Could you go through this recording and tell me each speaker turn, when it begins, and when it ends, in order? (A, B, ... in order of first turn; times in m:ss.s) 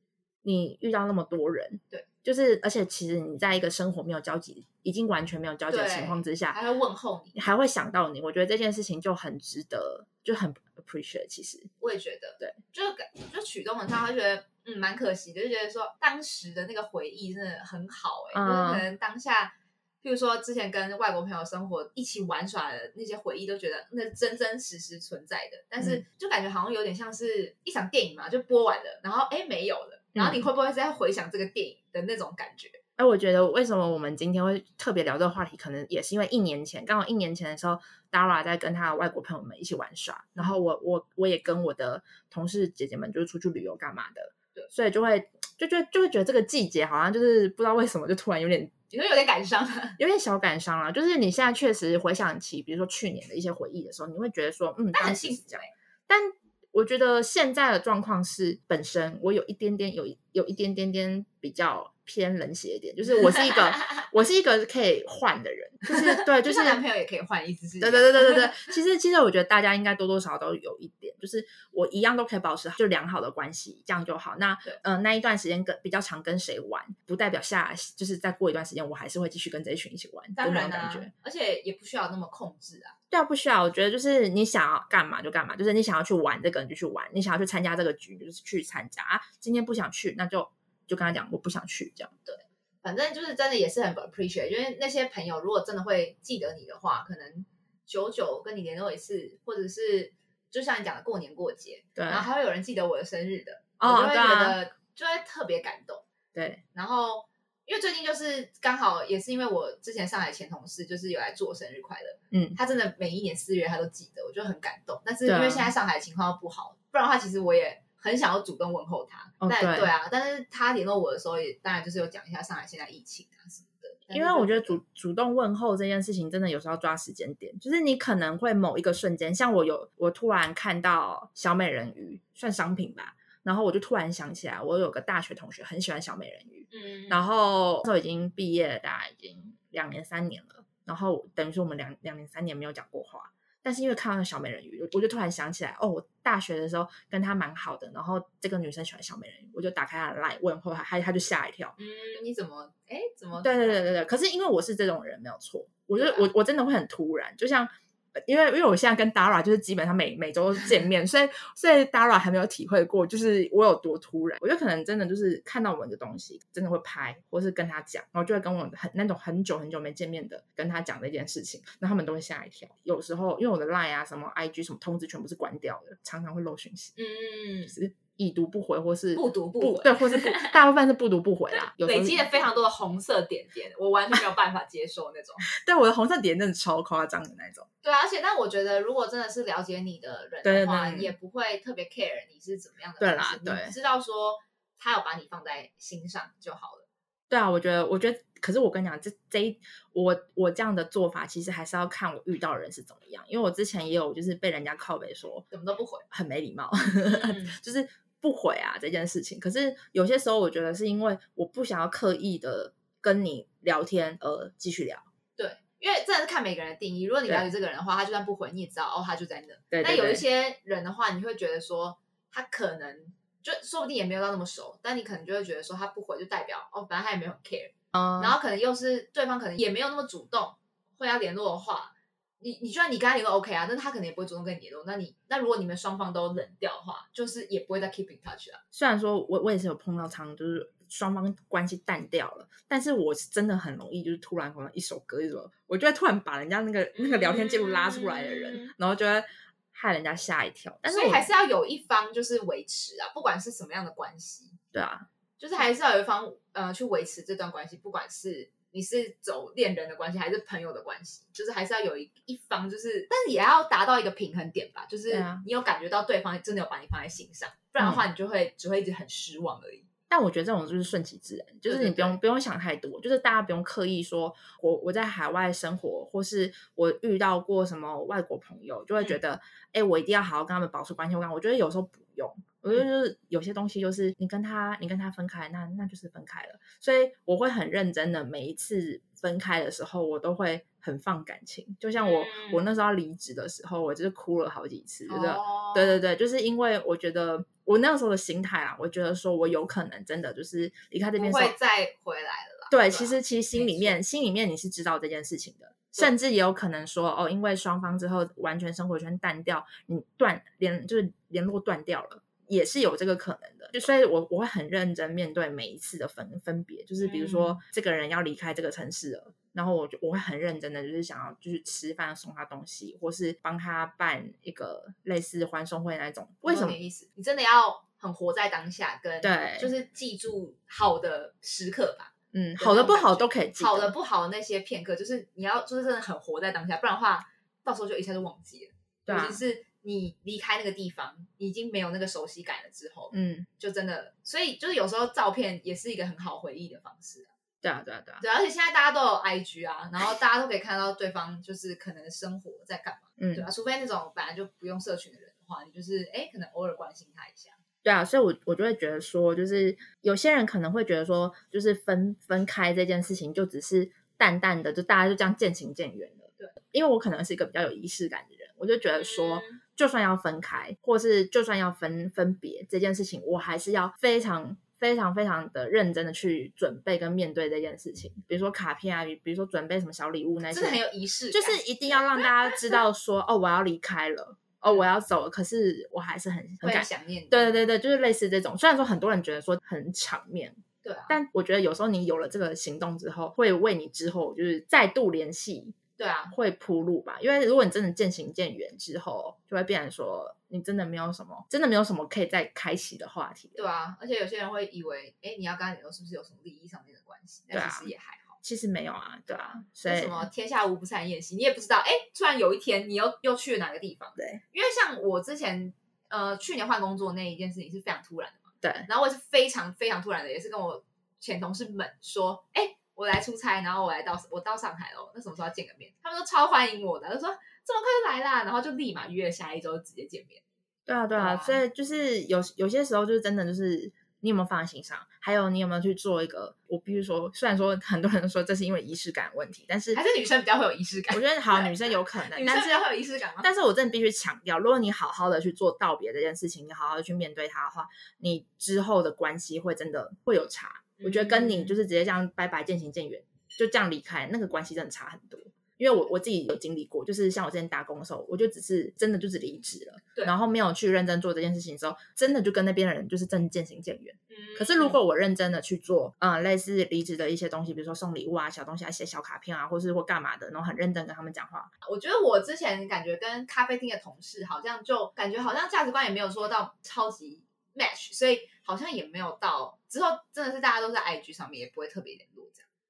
0:00.4-0:06.6 A
0:05.7-0:07.4 B
0:07.4-0:11.7 A
0:11.8-0:32.8 B
0:18.3-0:18.8 A
0:30.1-0:30.4 A
0:33.0-0:48.7 A
0:48.9-0:50.0 B
0:50.0-1:06.8 A
0:54.9-0:55.7 B
1:05.9-1:08.7 B
1:07.8-1:21.1 A
1:20.4-1:22.9 B
1:23.1-1:32.1 A
1:32.3-1:46.0 B
1:42.0-1:42.3 A
1:43.8-1:44.6 A
1:46.4-1:46.6 A
1:46.7-2:04.8 B
1:52.3-1:52.6 A
1:55.2-1:55.7 A
1:59.4-1:59.9 A
2:04.1-2:31.8 A
2:16.7-2:17.2 B
2:31.8-2:33.8 B
2:33.4-2:56.9 A
2:36.0-2:36.3 B
2:57.0-2:57.8 B
2:57.7-3:02.3 A
2:59.2-3:00.6 B
3:01.7-3:05.5 B
3:05.5-3:07.7 A
3:07.8-3:16.9 B
3:10.4-3:11.1 A
3:13.0-3:13.7 A
3:17.3-3:25.5 A
3:25.5-3:26.0 B
3:26.1-3:35.1 A
3:27.0-3:27.6 B
3:35.4-3:58.6 B
3:39.7-3:40.2 A
3:48.0-3:48.3 A
3:58.7-4:11.3 A
4:06.9-4:08.7 B
4:10.9-4:14.6 B
4:14.7-4:15.1 A
4:15.4-4:29.9 B
4:25.1-4:25.4 A
4:27.8-4:28.0 A
4:30.1-5:01.6 A
4:31.7-4:32.2 B
4:52.0-4:52.7 B
4:55.1-4:56.0 B
5:01.2-5:04.0 B
5:02.7-5:26.8 A
5:17.0-5:17.6 B
5:26.4-5:47.3 B
5:29.2-5:29.7 A
5:32.3-5:33.9 A
5:39.1-5:39.4 A
5:43.1-5:43.5 A
5:47.6-5:48.2 A
5:48.2-5:57.6 B
5:53.2-5:53.4 A
5:57.8-6:20.8 A
6:09.0-6:09.6 B
6:20.5-6:22.8 B
6:21.3-6:35.8 A
6:26.6-6:27.6 B
6:30.8-6:31.2 B
6:36.0-6:36.3 B
6:36.3-6:43.6 A
6:43.6-6:48.4 B
6:47.5-6:50.3 A
6:49.8-7:10.4 B
6:58.6-6:58.9 A
7:10.9-7:20.0 A
7:11.1-7:11.6 B
7:19.9-7:23.5 B
7:21.1-7:22.9 A
7:23.4-7:51.7 A
7:31.0-7:31.8 B
7:44.3-7:45.0 B
7:51.8-8:02.6 B